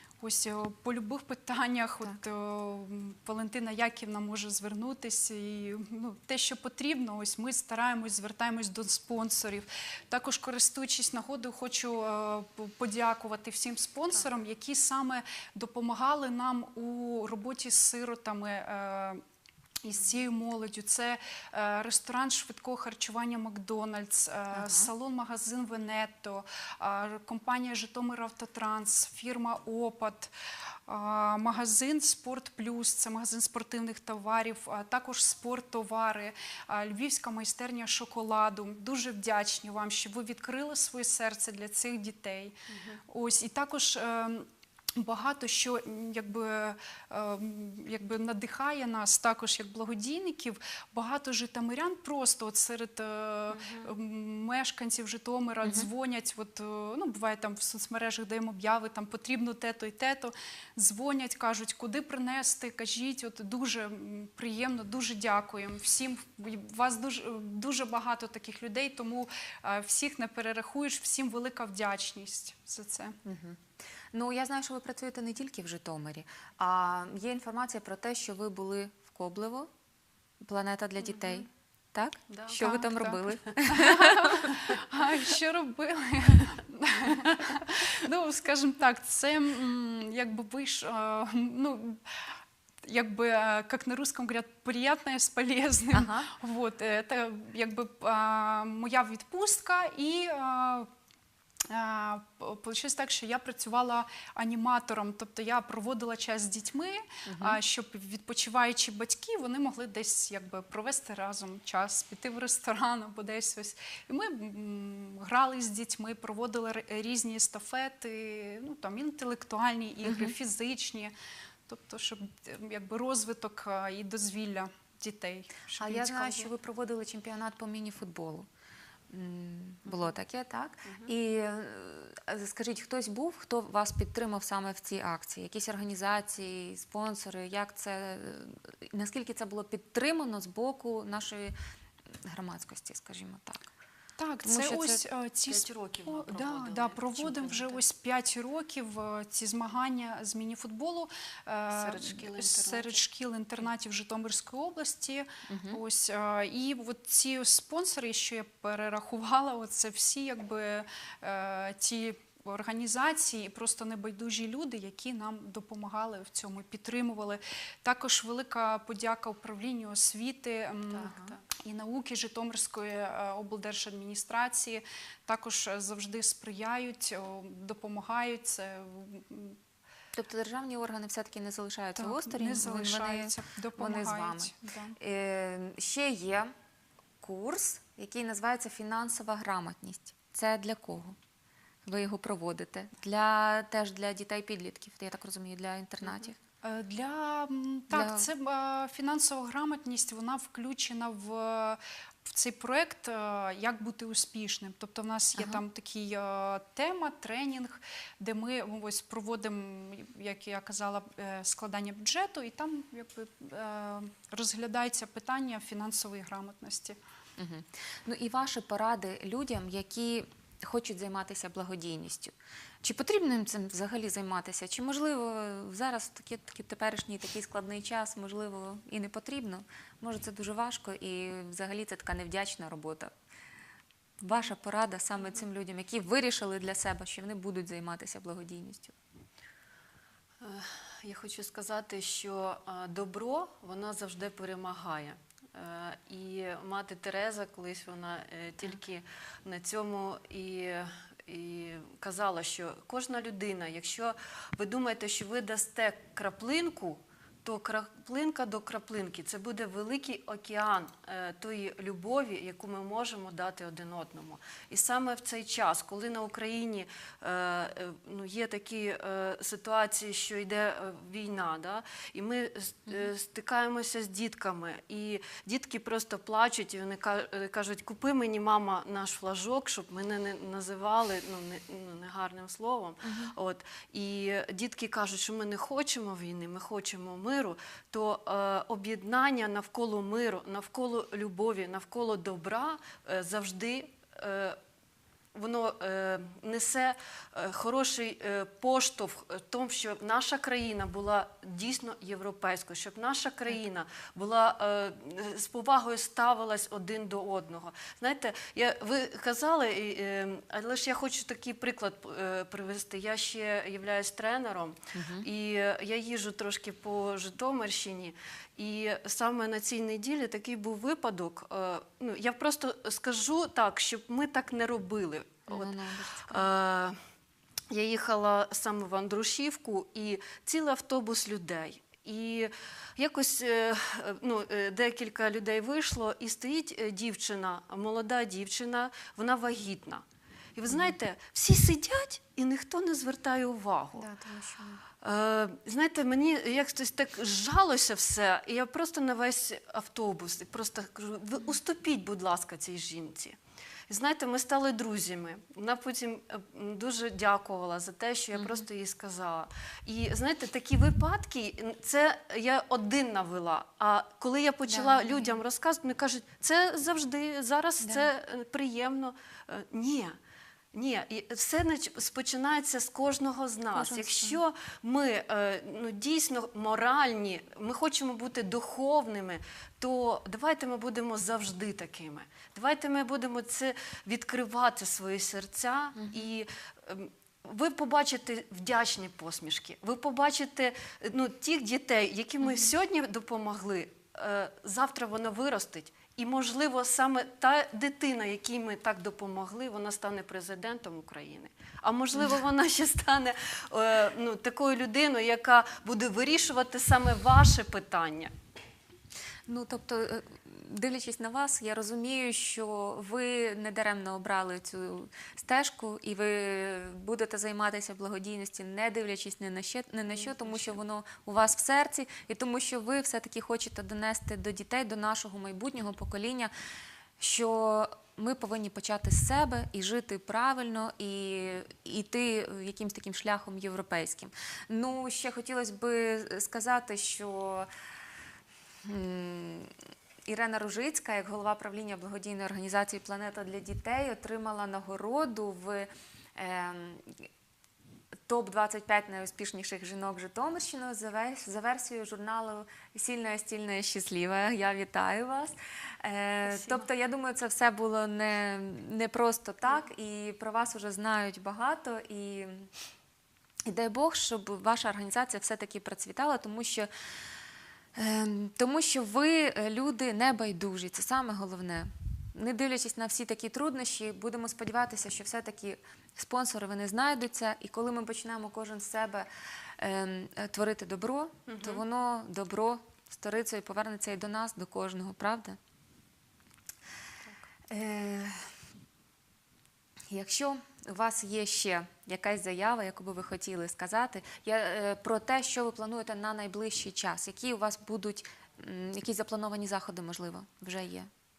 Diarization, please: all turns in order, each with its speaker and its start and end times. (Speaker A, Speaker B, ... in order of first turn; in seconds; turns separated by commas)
Speaker A: 0.2-19.2, Speaker A: 19.8-30.3, Speaker B: 24.5-24.9, Speaker A: 30.9-42.6, Speaker C: 42.7-43.0, Speaker A: 43.1-73.2, Speaker C: 53.6-53.9, Speaker B: 55.6-55.9, Speaker B: 73.2-73.6, Speaker B: 74.1-79.7, Speaker B: 80.4-84.5, Speaker C: 82.3-82.6, Speaker A: 82.5-92.0, Speaker A: 92.8-100.9, Speaker B: 95.9-96.3, Speaker A: 101.7-121.1, Speaker B: 107.3-107.6, Speaker B: 120.0-120.3, Speaker A: 121.7-126.5, Speaker B: 125.8-128.5, Speaker B: 129.1-141.5, Speaker C: 130.9-131.1, Speaker B: 142.3-143.7, Speaker A: 144.2-179.6, Speaker B: 144.4-145.0, Speaker C: 145.5-147.8, Speaker C: 151.7-153.0, Speaker B: 155.5-155.8, Speaker C: 170.9-171.4, Speaker B: 171.0-171.3, Speaker B: 180.1-186.5, Speaker A: 182.0-185.0, Speaker B: 187.2-191.2, Speaker B: 191.9-196.4, Speaker A: 196.6-217.0, Speaker B: 197.9-198.3, Speaker B: 205.3-205.6, Speaker B: 217.4-233.1, Speaker B: 234.2-238.9, Speaker C: 235.2-235.4, Speaker C: 240.4-294.6, Speaker B: 283.0-283.3, Speaker C: 295.4-325.8, Speaker B: 314.9-315.3, Speaker B: 325.5-326.5, Speaker C: 326.3-327.0, Speaker C: 327.7-340.0, Speaker C: 340.6-344.1, Speaker B: 343.9-344.8, Speaker C: 345.0-353.4, Speaker C: 353.9-370.2, Speaker B: 358.4-358.7, Speaker B: 364.7-365.4, Speaker B: 367.8-368.1, Speaker C: 370.7-408.3, Speaker B: 373.7-374.4, Speaker B: 386.0-386.3, Speaker B: 392.4-392.7, Speaker B: 409.5-426.5, Speaker C: 420.1-420.8, Speaker B: 427.2-437.7, Speaker B: 438.8-439.7, Speaker B: 440.3-447.1, Speaker B: 448.3-462.7, Speaker C: 456.4-456.9, Speaker B: 463.7-466.9, Speaker B: 468.0-479.3, Speaker B: 479.8-485.6, Speaker C: 481.5-481.8, Speaker C: 487.2-487.5, Speaker B: 487.7-488.5, Speaker B: 490.1-501.1